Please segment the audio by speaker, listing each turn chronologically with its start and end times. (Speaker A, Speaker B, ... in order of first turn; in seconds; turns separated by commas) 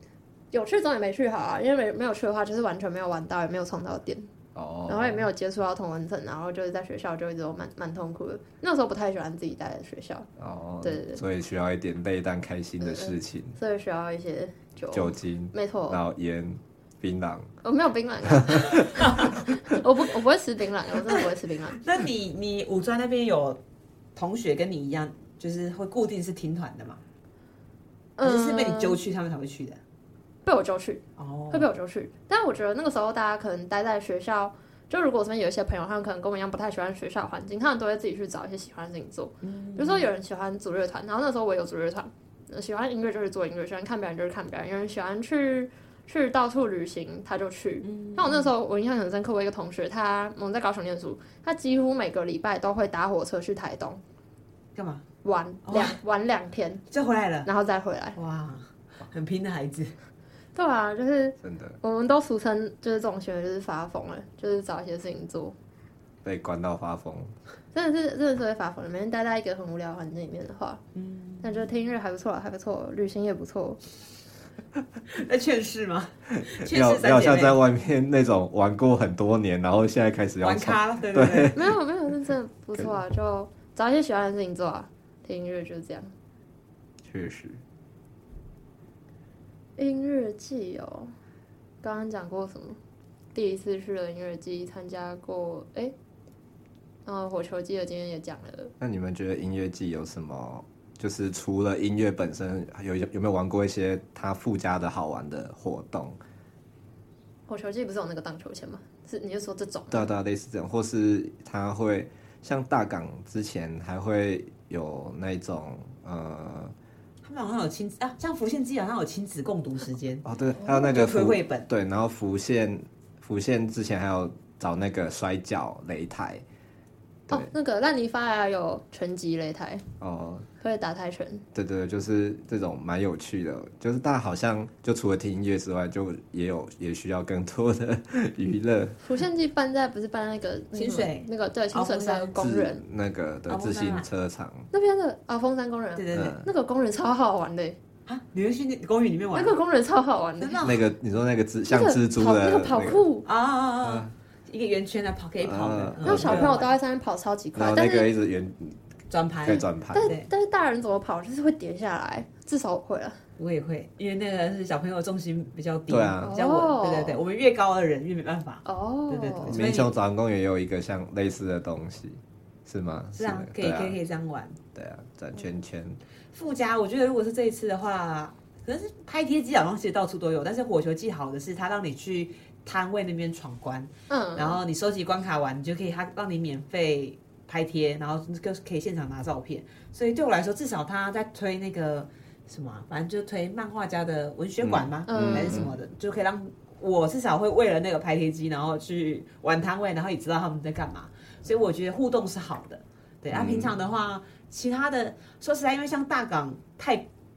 Speaker A: 0.5-4.3, Speaker B: 4.5-5.3, Speaker A: 4.9-10.3, Speaker B: 10.4-13.6, Speaker A: 10.8-11.2, Speaker A: 12.8-16.0, Speaker B: 14.9-17.5, Speaker A: 17.6-21.8, Speaker B: 18.4-19.1, Speaker C: 21.8-23.6, Speaker C: 24.2-27.0, Speaker A: 28.2-29.0, Speaker C: 28.2-29.8, Speaker A: 30.4-54.0, Speaker C: 31.2-31.7, Speaker C: 39.4-40.1, Speaker C: 47.8-48.5, Speaker C: 54.8-55.0, Speaker A: 55.2-56.8, Speaker C: 55.7-56.0, Speaker C: 56.9-57.5, Speaker A: 57.5-58.2, Speaker C: 58.2-60.0, Speaker A: 60.5-65.6, Speaker B: 61.4-61.8, Speaker B: 66.2-67.3, Speaker A: 67.7-70.8, Speaker C: 71.0-71.7, Speaker A: 71.4-73.8, Speaker C: 75.1-77.6, Speaker B: 76.4-81.7, Speaker C: 80.4-81.6, Speaker A: 81.5-86.1, Speaker B: 87.0-87.6, Speaker A: 89.8-91.1, Speaker A: 91.8-92.8, Speaker A: 93.3-95.9, Speaker A: 97.1-98.7, Speaker B: 98.8-106.2, Speaker A: 107.5-110.1, Speaker B: 109.9-116.7, Speaker C: 117.2-121.7, Speaker B: 120.2-126.4, Speaker A: 127.3-129.8, Speaker B: 130.0-130.5, Speaker A: 130.6-131.4, Speaker B: 131.5-139.0, Speaker A: 139.0-142.8, Speaker C: 140.7-142.3, Speaker B: 142.4-144.7, Speaker C: 143.5-144.1, Speaker A: 144.7-147.8, Speaker C: 146.0-146.4, Speaker B: 146.1-146.5, Speaker C: 148.1-149.6, Speaker A: 149.3-150.7, Speaker C: 150.4-150.8, Speaker B: 150.6-153.0, Speaker A: 151.7-153.3, Speaker C: 153.2-156.7, Speaker B: 153.8-154.1, Speaker B: 155.4-156.6, Speaker A: 156.0-158.1, Speaker B: 157.6-158.8, Speaker C: 159.1-160.3, Speaker B: 159.4-160.1, Speaker A: 159.9-163.2, Speaker C: 163.4-169.9, Speaker B: 165.9-166.3, Speaker A: 166.2-167.2, Speaker A: 168.7-169.6, Speaker B: 169.5-174.0, Speaker C: 173.2-174.6, Speaker B: 174.8-176.0, Speaker C: 176.3-207.1, Speaker A: 184.1-184.6, Speaker B: 194.6-195.7, Speaker A: 195.1-195.7, Speaker B: 203.3-203.7